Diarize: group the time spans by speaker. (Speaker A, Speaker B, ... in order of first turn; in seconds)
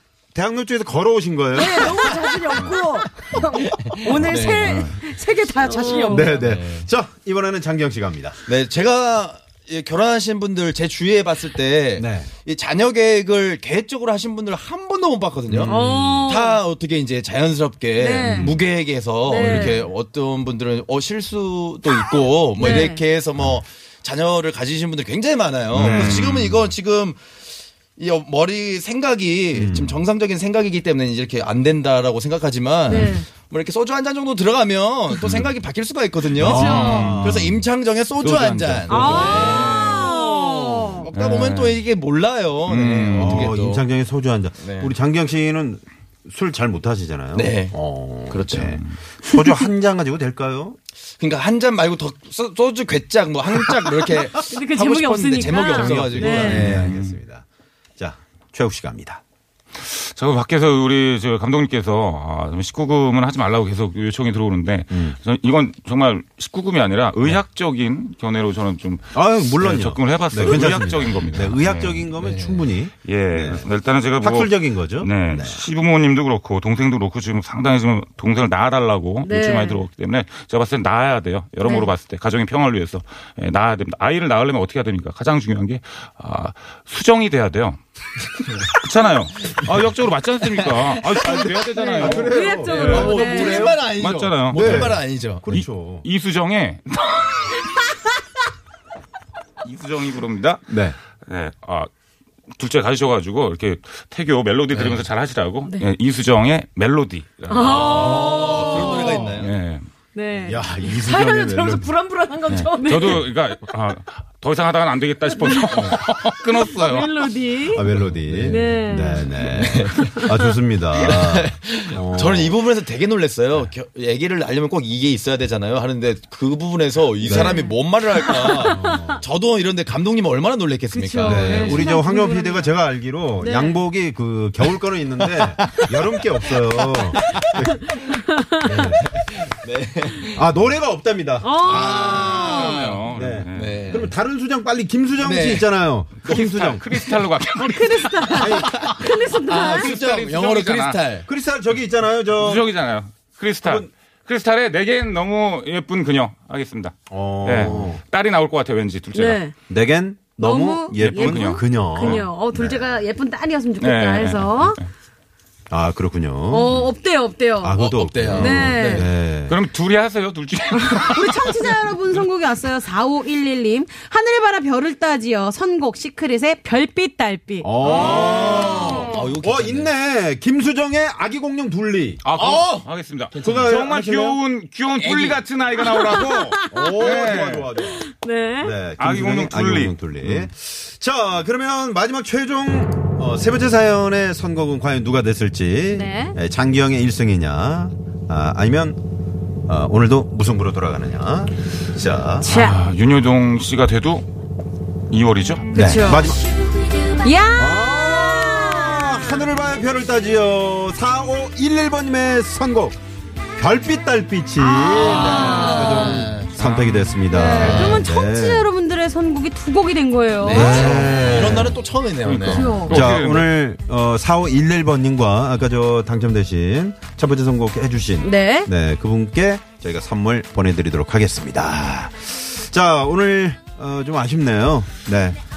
Speaker A: 0.3-2.1, 6.1-8.4, 12.0-12.3, 15.5-16.1, 18.3-18.6, 25.7-26.2, 29.5-30.1, 36.3-37.6, 43.1-50.8, 55.8-57.5, 58.0-59.2, 64.9-65.2, 69.1-75.6, 91.2-93.8, 94.5-96.0, 100.7-101.0, 110.3-111.9, 117.7-122.6, 127.2-127.6, 128.6-129.2, 131.2-138.0, 138.6-139.0, 140.3-141.9, 143.1-146.9, 148.4-148.8, 151.2-152.7, 153.6-153.9, 157.1-158.0, 159.7-162.9, 165.7-166.9, 167.6-169.6, 177.6-182.2, 183.4-184.4, 186.7-199.0, 199.7-202.5, 205.7-206.4, 207.6-213.0, 213.6-218.7, 220.4-221.8, 222.9-235.4
Speaker B: 1.5-6.3, 110.8-113.2
Speaker C: 3.8-4.9, 6.2-6.9, 8.5-27.2, 28.0-43.9, 44.6-44.9, 47.3-47.7, 48.3-48.8, 51.2-56.9, 72.2-72.7, 90.6-90.9, 92.7-95.5, 104.7-105.0, 107.5-109.5, 117.8-118.8, 119.4-120.3, 120.9-132.0, 135.4-137.6, 139.0-140.4, 141.6-144.1, 145.2-145.7, 146.3-146.8, 148.3-151.2, 167.7-169.1, 177.8-179.9, 182.3-183.7, 185.0-185.4, 214.9-216.5, 217.5-218.0, 220.4-222.9
Speaker D: 5.6-6.3, 15.7-16.6, 17.9-18.6, 19.3-19.8, 22.6-23.0, 32.9-33.2, 36.4-37.1, 38.9-41.1, 54.5-56.6, 79.2-79.8, 81.6-81.9, 92.0-93.8, 107.5-109.3, 110.1-110.6, 112.7-113.2, 115.4-115.9, 116.5-117.9, 118.4-120.2, 127.2-129.2, 130.9-132.7, 133.4-133.8, 138.1-138.9, 141.4-142.8, 147.6-150.0, 159.1-159.5, 160.4-164.8, 166.5-167.8, 168.3-169.1, 170.9-179.2, 185.8-187.3, 187.8-188.7, 195.9-196.3, 202.4-202.8, 205.7-206.3, 207.2-209.4, 214.6-216.3, 217.3-221.0, 222.5-223.0, 228.2-228.7
Speaker E: 25.7-26.7, 35.2-35.5, 36.6-37.5, 38.2-39.8, 41.1-41.8, 42.6-43.5, 56.5-57.2, 59.7-72.1, 73.0-87.8, 88.7-93.2, 93.8-94.9, 95.5-97.6, 99.6-101.9, 102.5-108.2, 109.3-109.8, 112.5-117.3, 142.1-144.1, 146.2-148.1, 149.7-151.0, 152.3-159.4, 160.9-162.2, 163.8-164.9, 169.4-171.7, 182.2-187.7, 189.0-190.5, 202.4-204.2, 205.1-205.7, 216.5-217.3, 222.2-223.5